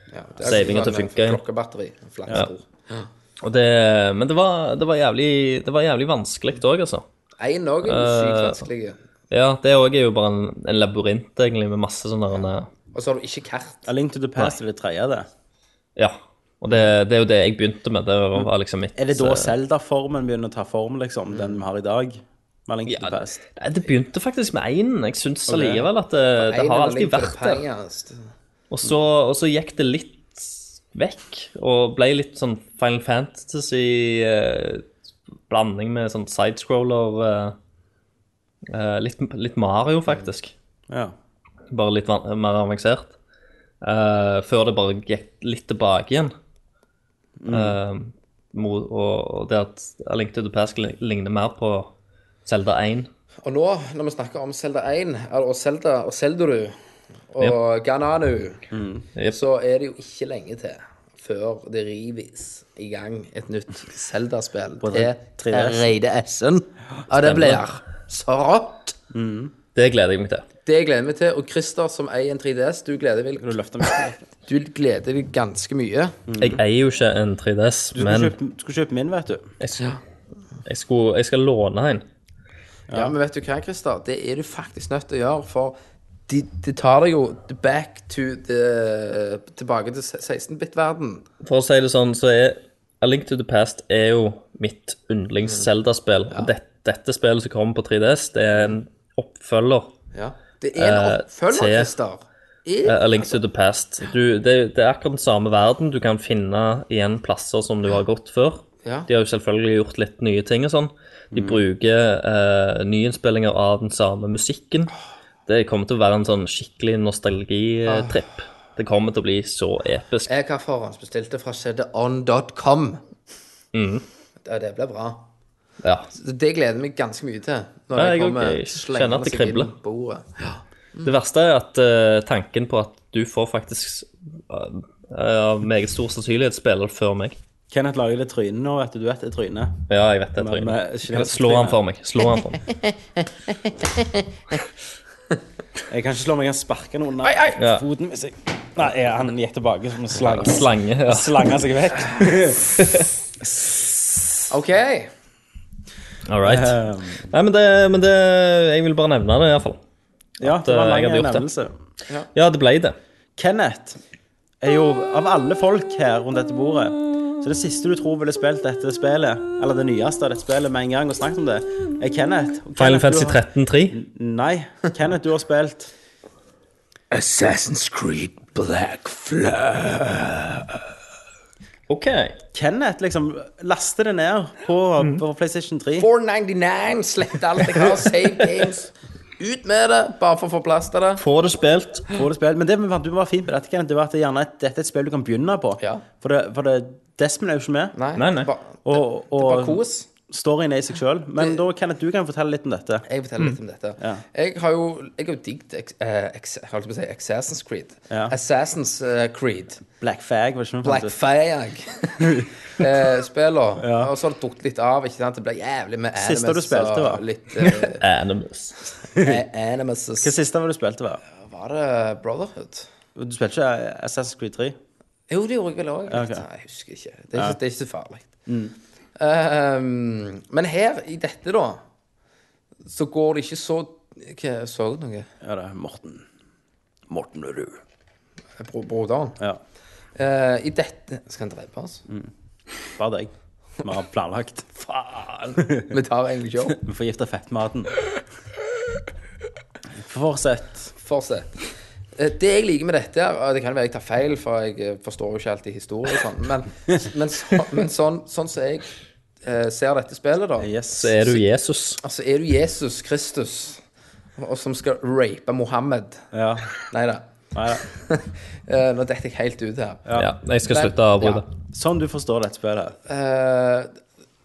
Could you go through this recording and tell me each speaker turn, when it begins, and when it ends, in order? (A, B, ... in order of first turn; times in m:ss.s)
0:00.1-0:03.1 A
0:00.4-0:01.4 B
0:03.4-0:07.0 B
0:07.4-0:09.0 A
0:07.8-0:08.6 B
0:09.3-0:12.7 B
0:12.9-0:13.9 A
0:13.9-0:15.3 C
0:16.0-0:19.5 B
0:18.4-0:23.4 C
0:21.3-0:21.6 A
0:22.8-0:27.6 B
0:25.5-0:25.8 C
0:26.4-0:28.2 A
0:28.7-0:34.8 B
0:35.5-0:37.6 B
0:38.7-0:40.5 B
0:40.9-0:41.1 C
0:41.7-0:43.1 B
0:43.8-0:46.3 B
0:47.4-0:47.8 C
0:47.5-0:51.9 B
0:52.4-0:53.1 B
0:53.4-0:56.8 A
0:57.3-0:58.6 A
0:58.7-0:59.1 C
0:59.3-1:09.0 A
1:04.8-1:05.9 C
1:07.1-1:07.6 B
1:09.1-1:09.5 C
1:09.7-1:10.4 B
1:10.6-1:13.6 A
1:13.4-1:14.2 C
1:14.4-1:16.2 A
1:16.3-1:16.6 C
1:16.4-1:18.3 B
1:17.9-1:19.5 C
1:19.6-1:19.8 B
1:20.6-1:22.0 B
1:22.9-1:23.1 C
1:22.9-1:25.8 A
1:26.3-1:31.2 A
1:31.4-1:39.9 B
1:40.1-1:43.4 A
1:40.8-1:41.9 B
1:42.8-1:54.9 B
1:51.3-1:51.6 C
1:55.5-2:00.3 B
1:57.8-1:58.2 A
2:00.3-2:03.0 A
2:03.7-2:04.0 B
2:04.4-2:05.3 A
2:05.8-2:06.1 B
2:06.1-2:11.1 A
2:08.0-2:09.7 B
2:11.0-2:17.4 B
2:17.7-2:19.8 C
2:19.9-2:22.6 B
2:20.4-2:21.8 C
2:25.9-2:32.6 C
2:27.2-2:27.6 A
2:27.6-2:27.8 B
2:30.2-2:31.4 B
2:32.8-2:33.1 B
2:34.5-2:35.1 A
2:36.3-2:39.8 B
2:36.4-2:37.2 C
2:40.4-2:41.4 B
2:40.4-2:41.7 C
2:42.3-2:43.0 B
2:43.4-2:44.0 C
2:44.6-2:55.9 C
2:52.8-2:54.0 B
2:57.1-3:00.8 A
3:01.9-3:02.4 B
3:02.5-3:06.1 C
3:06.0-3:11.2 A
3:11.2-3:12.1 B
3:12.2-3:17.9 C
3:15.8-3:16.0 A
3:17.9-3:20.0 A
3:18.2-3:18.5 B
3:18.8-3:23.0 C
3:23.0-3:29.8 A
3:28.1-3:28.3 C
3:30.0-3:31.1 C
3:30.8-3:38.0 A
3:32.2-3:32.5 C
3:33.8-3:34.1 C
3:36.2-3:37.2 C
3:37.6-3:38.8 B
3:39.1-3:40.3 A
3:40.2-3:41.2 C
3:41.4-3:42.9 A
3:43.2-3:44.8 C
3:45.3-3:48.3 A
3:46.1-3:46.4 C
3:48.5-3:48.7 C
3:49.2-3:51.8 A
3:52.8-3:55.3 A
3:55.4-3:56.2 C
3:57.1-3:57.8 C
3:58.6-3:59.4 A
4:00.1-4:02.0 A
4:02.9-4:03.3 C
4:03.8-4:04.9 C
4:04.8-4:06.8 A
4:05.6-4:05.9 C
4:06.7-4:07.9 C
4:09.9-4:10.9 C
4:11.0-4:11.5 A
4:12.2-4:18.9 A
4:19.4-4:20.7 A
4:20.6-4:21.2 C
4:21.0-4:22.0 B
4:22.0-4:23.8 A
4:24.4-4:26.3 A
4:26.3-4:26.7 C
4:26.8-4:30.1 A
4:27.5-4:27.8 C
4:30.0-4:30.3 C
4:30.2-4:31.4 B
4:30.7-4:31.4 A
4:31.7-4:33.0 C
4:33.0-4:34.0 A